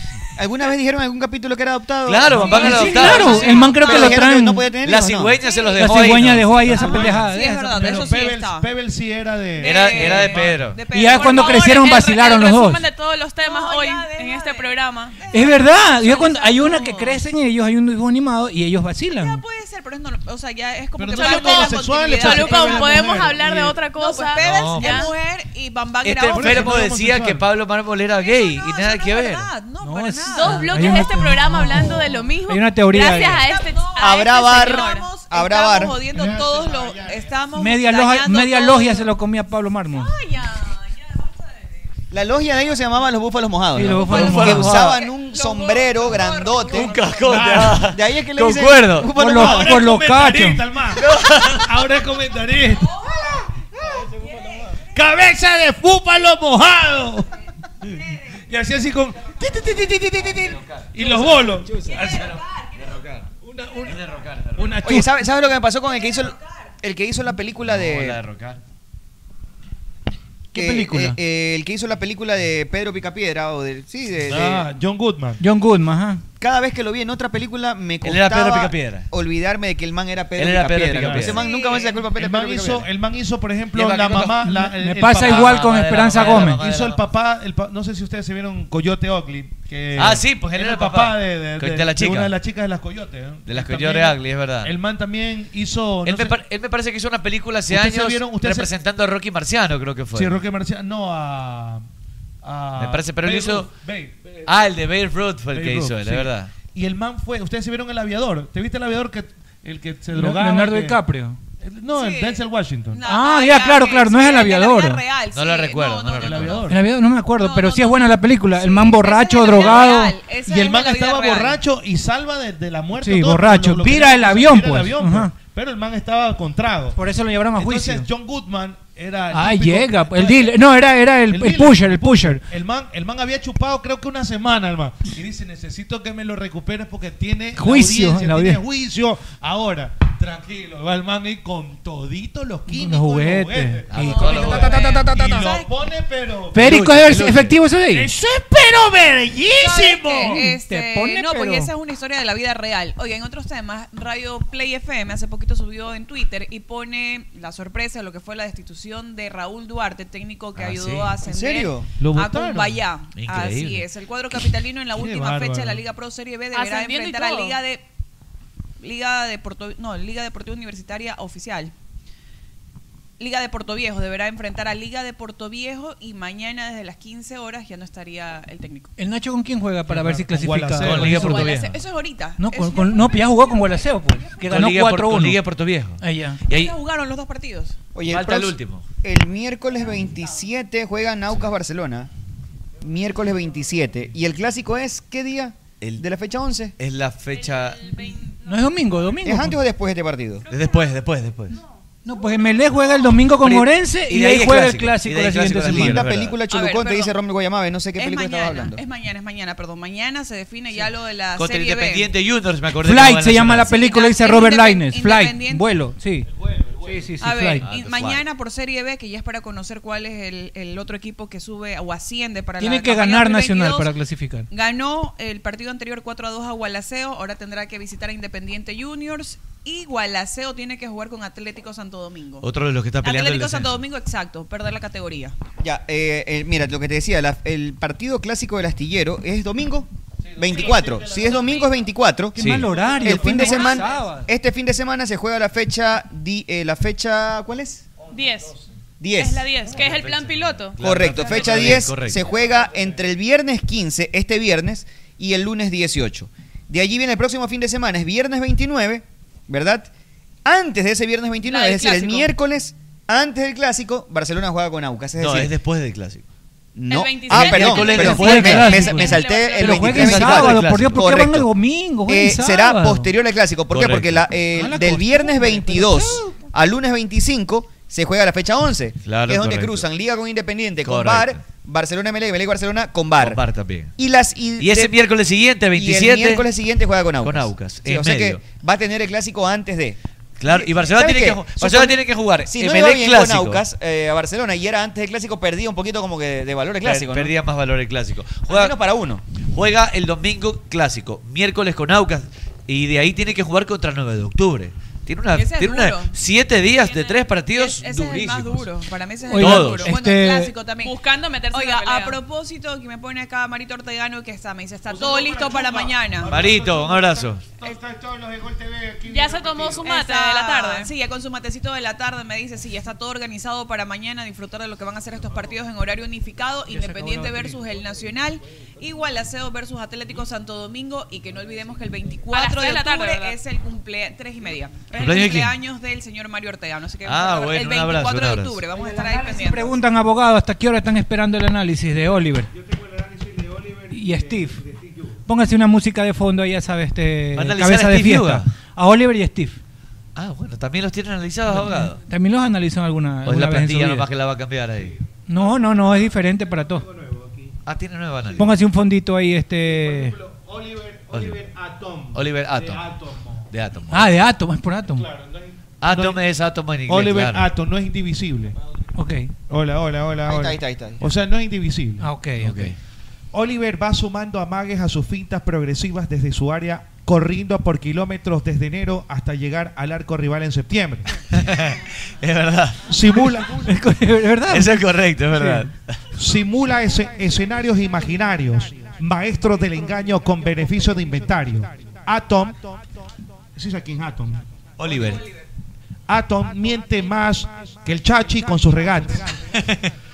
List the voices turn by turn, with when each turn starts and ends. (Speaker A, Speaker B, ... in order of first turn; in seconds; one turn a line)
Speaker A: 0.4-5.4
Speaker B: 2.0-3.6
Speaker C: 2.3-2.9
Speaker D: 2.4-4.7
Speaker E: 2.4-4.2
Speaker B: 4.8-6.6
Speaker E: 5.4-8.7
Speaker D: 5.7-8.2
Speaker C: 6.3-10.6
Speaker E: 9.6-12.1
Speaker B: 9.6-10.8
Speaker D: 10.9-12.8
Speaker F: 11.2-15.2
Speaker E: 13.4-17.2
Speaker D: 15.3-19.4
Speaker E: 19.2-23.2
Speaker C: 21.0-23.8
Speaker F: 21.2-25.1
Speaker E: 23.9-26.9
Speaker B: 24.4-25.0
Speaker B: 26.0-29.5
Speaker C: 26.3-27.5
Speaker E: 28.2-30.9
Speaker D: 29.8-33.5
Speaker F: 30.3-35.1
Speaker E: 33.5-39.1
Speaker A: 34.0-36.0
Speaker C: 36.1-37.0
Speaker D: 37.5-40.1
Speaker E: 39.9-41.8
Speaker A: 42.1-47.0
Speaker D: 43.8-44.9
Speaker E: 44.1-47.6
Speaker B: 44.1-45.0
Speaker B: 46.7-49.2
Speaker C: 47.2-47.9
Speaker A: 47.7-49.9
Speaker D: 49.1-50.6
Speaker C: 49.3-52.9
Speaker B: 51.0-51.7
Speaker E: 52.8-53.5
Speaker C: 54.9-57.3
Speaker C: 58.5-62.4
Speaker B: 60.3-61.4
Speaker E: 61.7-62.4
Speaker B: 62.0-63.3
Speaker C: 63.4-63.9
Speaker B: 63.8-64.8
Speaker C: 64.6-65.1
Speaker A: 64.8-68.2
Speaker E: 65.9-66.6
Speaker B: 67.6-68.6
Speaker D: 70.5-71.2
Speaker A: 70.5-74.7
Speaker C: 74.3-75.4
Speaker D: 75.4-76.2
Speaker A: 76.4-82.9
Speaker B: 78.0-79.1
Speaker B: 80.4-81.5
Speaker C: 81.0-81.3
Speaker E: 81.3-82.1
Speaker C: 82.1-96.4
Speaker D: 84.2-86.6
Speaker B: 85.2-87.0
Speaker B: 90.0-92.3
Speaker B: 93.5-94.7
Speaker B: 96.0-100.4
Speaker C: 97.7-98.7
Speaker C: 100.1-101.9
Speaker C: 102.4-104.5
Speaker B: 102.8-103.7
Speaker B: 104.5-106.5
Speaker C: 105.5-111.0
Speaker D: 110.1-111.4
Speaker C: 111.6-113.0
Speaker E: 111.9-116.7
Speaker D: 113.0-115.0
Speaker B: 115.3-116.7
Speaker C: 116.2-116.8
Speaker D: 116.7-120.2
Speaker E: 117.3-121.6
Speaker C: 119.5-127.0
Speaker D: 123.0-125.3
Speaker D: 127.0-128.1
Speaker C: 127.6-130.6
Speaker D: 129.3-132.4
Speaker C: 131.3-147.4
Speaker D: 137.6-138.6
Speaker D: 142.7-144.4
Speaker B: 143.9-144.8
Speaker E: 144.0-145.7
Speaker G: 144.7-145.5
Speaker D: 146.5-148.1
Speaker B: 146.6-147.6
Speaker C: 147.9-148.3
Speaker G: 148.3-150.3
Speaker E: 149.6-167.8
Speaker C: 149.9-150.4
Speaker D: 150.2-151.7
Speaker B: 160.6-161.1
Speaker A: 161.2-161.9
Speaker C: 162.0-162.8
Speaker B: 163.1-163.8
Speaker C: 164.9-165.8
Speaker F: 166.5-167.6
Speaker E: 168.8-171.7
Speaker E: 173.2-178.9
Speaker D: 179.0-181.7
Speaker C: 179.9-181.5
Speaker B: 180.8-181.7
Speaker E: 181.2-184.4
Speaker D: 182.4-185.4
Speaker B: 184.4-186.7
Speaker D: 186.0-186.4
Speaker E: 186.5-187.8
Speaker A: 187.9-192.1
Speaker B: 188.1-188.8
Speaker A: 192.8-196.8
Speaker B: 196.8-198.0
Speaker F: 197.3-198.5
Speaker D: 198.4-199.6
Speaker A: 199.2-200.5
Speaker F: 200.5-203.2
Speaker B: 200.5-201.6
Speaker D: 202.0-206.1
Speaker B: 203.3-206.4
Speaker A: 205.7-208.8
Speaker E: 206.5-207.2
Speaker E: 208.0-212.1
Speaker B: 211.4-213.8
Speaker D: 212.8-216.3
Speaker E: 213.6-215.7
Speaker C: 216.3-217.0
Speaker D: 216.9-217.7
Speaker E: 217.2-223.9
Speaker B: 217.6-218.2
Speaker D: 222.6-224.5
Speaker E: 224.5-232.5
Speaker B: 232.4-233.8
Speaker E: 233.0-235.4
Speaker A: 235.6-242.4
Speaker C: 240.3-241.5
Speaker F: 240.5-240.8
Speaker F: 241.3-241.7
Speaker D: 242.3-244.3
Speaker B: 242.4-242.7
Speaker A: 243.0-247.8
Speaker E: 243.4-243.8
Speaker F: 248.1-248.6
Speaker A: 249.0-249.7
Speaker F: 249.2-251.0
Speaker B: 249.7-252.2
Speaker A: 250.8-259.9
Speaker A: 260.4-265.6
Speaker E: 261.4-262.3
Speaker B: 265.2-266.2
Speaker A: 266.8-271.5
Speaker F: 266.9-269.9
Speaker B: 267.3-268.9
Speaker D: 267.8-273.1
Speaker B: 269.9-271.1
Speaker A: 272.1-283.4
Speaker B: 273.7-274.3
Speaker D: 274.5-276.3
Speaker B: 279.0-279.9
Speaker B: 280.8-281.4
Speaker B: 283.2-283.9
Speaker A: 284.0-285.1
Speaker B: 284.6-286.5
Speaker A: 285.7-297.3
Speaker B: 287.2-288.5
Speaker B: 290.4-293.6
Speaker B: 296.8-298.8
Speaker A: 298.5-299.2
Speaker B: 299.5-308.7
Speaker E: 305.3-306.2
Speaker F: 306.7-307.3
Speaker E: 307.5-311.0
Speaker D: 309.3-310.6
Speaker B: 309.4-309.9
Speaker F: 310.8-312.2
Speaker E: 311.5-316.3
Speaker C: 314.9-319.9
Speaker B: 316.2-317.5
Speaker F: 319.1-320.9
Speaker E: 319.8-339.8
Speaker D: 326.7-327.6
Speaker F: 332.3-333.4
Speaker B: 334.9-335.6
Speaker B: 337.1-338.6
Speaker D: 338.8-342.5
Speaker C: 342.5-345.2
Speaker D: 343.9-344.6
Speaker D: 345.3-349.6
Speaker B: 347.4-348.6
Speaker B: 350.2-352.0
Speaker D: 351.5-354.1
Speaker B: 353.2-355.0
Speaker C: 354.9-357.5
Speaker D: 355.3-356.9
Speaker B: 357.7-358.5
Speaker D: 358.3-360.2
Speaker C: 359.6-363.5
Speaker B: 361.1-361.4
Speaker B: 362.1-362.9
Speaker B: 363.5-364.1
Speaker D: 363.9-365.1
Speaker C: 364.9-366.2
Speaker B: 365.8-367.5
Speaker C: 366.9-368.6
Speaker D: 369.0-369.3
Speaker C: 369.5-372.1
Speaker A: 370.3-371.1
Speaker D: 372.0-372.7
Speaker B: 372.4-372.8
Speaker C: 373.3-381.2
Speaker B: 381.3-382.9
Speaker C: 382.9-383.8
Speaker D: 383.2-385.7
Speaker B: 384.5-386.0
Speaker C: 386.2-392.8
Speaker C: 393.6-394.4
Speaker B: 394.8-395.2
Speaker C: 396.1-399.3